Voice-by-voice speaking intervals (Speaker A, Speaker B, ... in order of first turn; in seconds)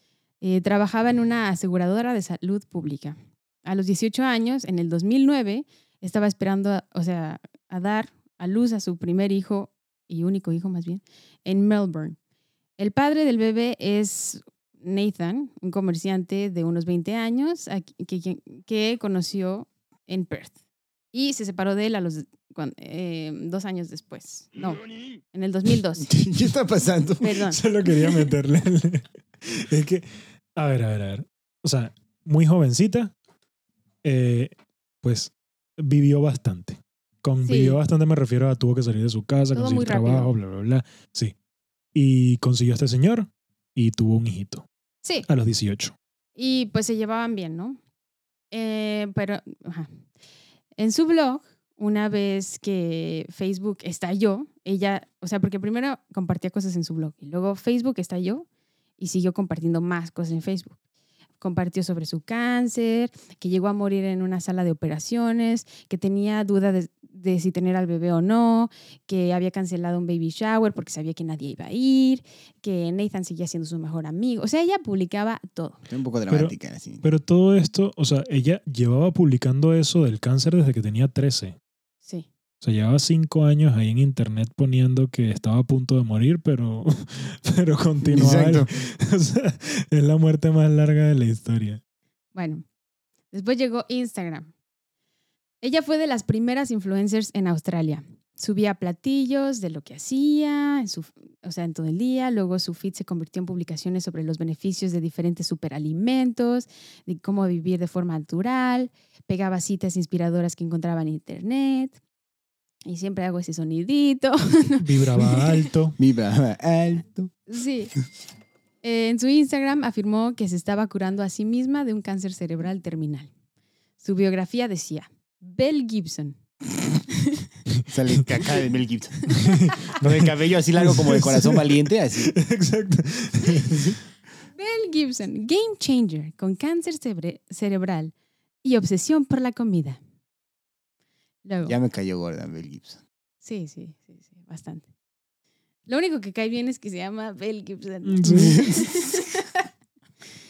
Speaker A: 0.4-12.2, 12.8-20.5, 21.1-26.1, 27.2-27.6, 37.4-37.8, 39.5-40.3, 46.4-47.8, 48.5-49.9, 50.8-58.5, 59.0-60.7, 61.4-75.8, 92.3-92.6, 93.3-94.5, 95.6-112.0, 112.8-115.6, 117.5-117.9, 118.8-123.3, 124.0-126.4, 127.1-127.5, 134.6-138.1, 138.6-140.0, 141.4-141.8, 143.4-144.9, 145.9-149.7
Speaker B: 26.0-27.4, 75.9-77.0, 88.0-88.7, 116.0-117.3, 127.9-129.3, 129.9-132.3, 133.7-134.0, 141.7-143.0, 148.3-149.3
Speaker C: 27.5-33.1, 34.0-34.5, 35.0-41.3, 41.9-44.6, 45.3-46.0, 76.3-81.5, 82.6-91.8, 114.8-116.0, 129.3-133.9, 148.0-148.7